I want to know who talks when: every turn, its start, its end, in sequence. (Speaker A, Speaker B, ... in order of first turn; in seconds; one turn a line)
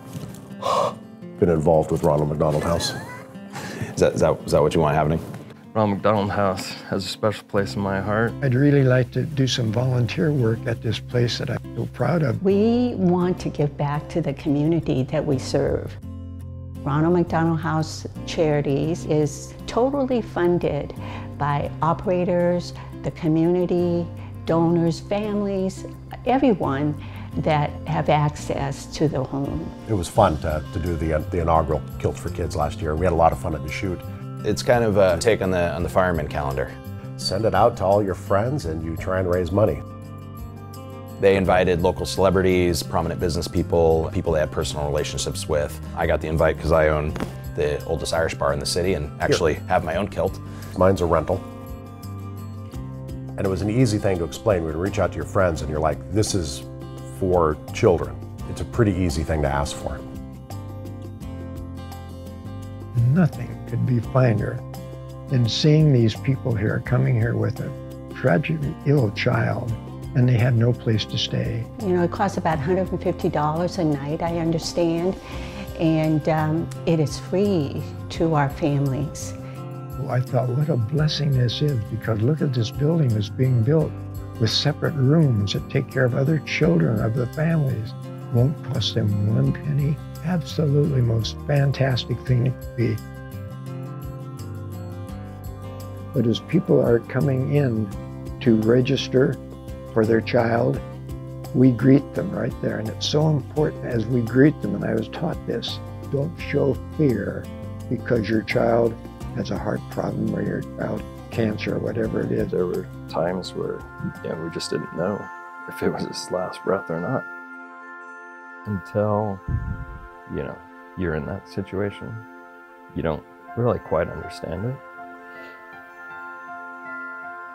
Speaker A: 0.6-3.0
Speaker B: 3.9-5.2
Speaker C: 5.7-8.4
Speaker D: 8.4-12.4
Speaker E: 12.4-16.0
Speaker E: 16.8-29.7
Speaker A: 29.9-34.0
Speaker B: 34.4-36.7
Speaker A: 37.2-39.8
Speaker B: 41.2-50.4
Speaker A: 50.8-51.4
Speaker A: 53.4-60.0
Speaker D: 63.0-64.6
Speaker D: 65.3-71.7
Speaker E: 71.8-75.2
Speaker E: 75.8-79.4
Speaker D: 80.0-93.0
Speaker D: 96.1-99.4
Speaker D: 99.9-100.8
Speaker D: 101.5-112.5
Speaker C: 112.4-117.2
Speaker C: 118.7-119.4
Speaker C: 120.3-122.2
Speaker C: 122.9-124.8